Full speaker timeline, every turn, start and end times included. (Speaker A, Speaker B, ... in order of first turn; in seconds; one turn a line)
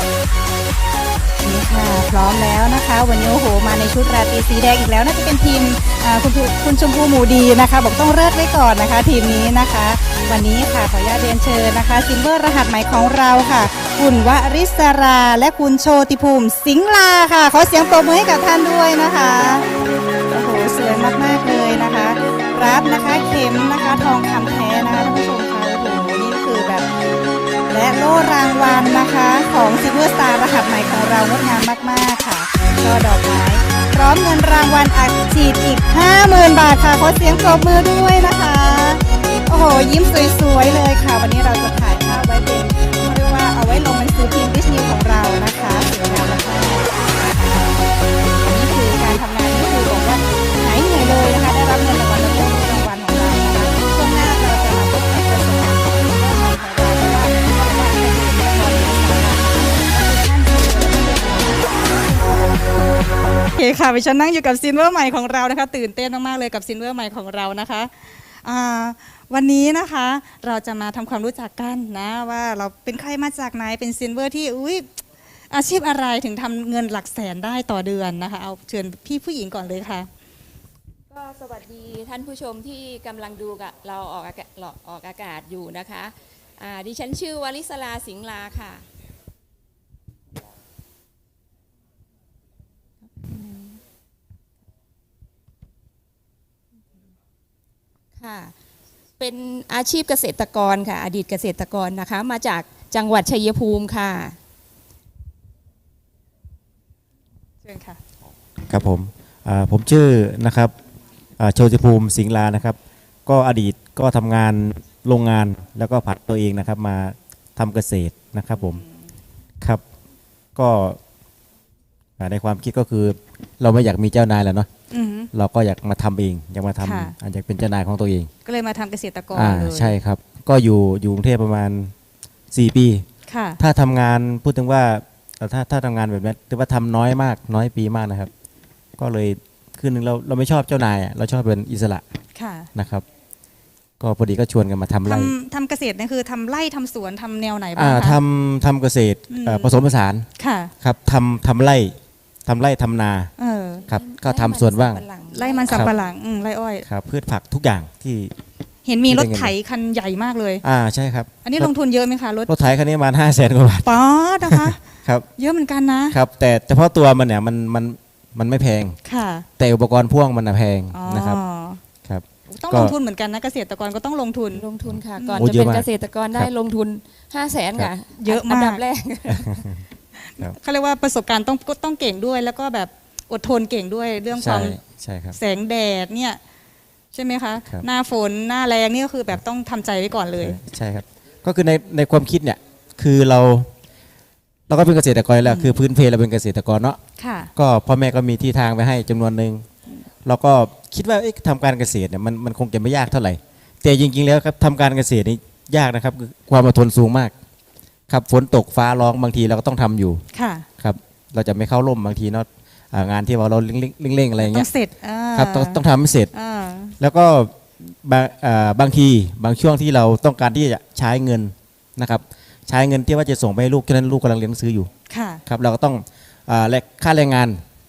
Speaker A: 1.4-19.7
Speaker A: 20.3-26.9
Speaker A: 27.7-62.7
Speaker A: 63.5-75.0
Speaker A: 75.5-80.1
Speaker B: 81.1-88.9
Speaker B: 93.2-93.8
Speaker B: 98.2-98.5
Speaker B: 99.2-104.4
Speaker A: 107.7-108.0
Speaker C: 108.7-110.7
Speaker C: 111.4-118.8
Speaker A: 118.6-118.9
Speaker C: 120.6-121.0
Speaker C: 122.2-124.7
Speaker A: 124.9-125.3
Speaker C: 125.3-128.3
Speaker A: 126.8-127.2
Speaker A: 128.4-130.0
Speaker C: 129.3-131.9
Speaker C: 132.5-133.1
Speaker A: 133.3-133.6
Speaker C: 133.6-138.3
Speaker C: 139.0-142.0
Speaker A: 142.3-142.7
Speaker C: 142.8-143.1
Speaker C: 144.0-145.3
Speaker A: 145.1-148.2
Speaker C: 147.8-150.3
Speaker A: 149.3-149.8
Speaker A: 150.4-150.7
Speaker C: 150.8-153.3
Speaker A: 153.4-153.9
Speaker B: 153.9-156.0
Speaker C: 153.9-155.0
Speaker A: 155.3-156.9
Speaker C: 156.9-158.3
Speaker A: 158.9-160.6
Speaker C: 159.1-159.6
Speaker C: 160.6-161.7
Speaker A: 161.4-162.5
Speaker C: 162.5-163.9
Speaker A: 163.8-164.8
Speaker C: 164.5-165.3
Speaker A: 165.4-166.2
Speaker C: 166.1-169.0
Speaker A: 169.1-169.5
Speaker C: 169.6-171.4
Speaker A: 170.9-171.8
Speaker C: 172.0-172.9
Speaker A: 172.5-174.7
Speaker B: 174.5-179.7
Speaker A: 175.2-175.5
Speaker C: 175.3-176.5
Speaker A: 178.2-178.8
Speaker C: 179.3-179.8
Speaker A: 180.2-184.8
Speaker C: 184.3-185.4
Speaker A: 185.3-186.4
Speaker A: 187.1-190.6
Speaker C: 190.4-193.7
Speaker C: 194.7-197.0
Speaker A: 195.4-195.8
Speaker A: 197.2-197.5
Speaker C: 197.6-199.7
Speaker C: 200.2-207.3
Speaker C: 208.1-210.2
Speaker A: 210.3-210.7
Speaker C: 210.8-214.7
Speaker A: 214.4-215.8
Speaker C: 215.3-216.3
Speaker A: 216.3-217.0
Speaker C: 217.0-224.9
Speaker A: 225.1-225.4
Speaker C: 225.5-227.6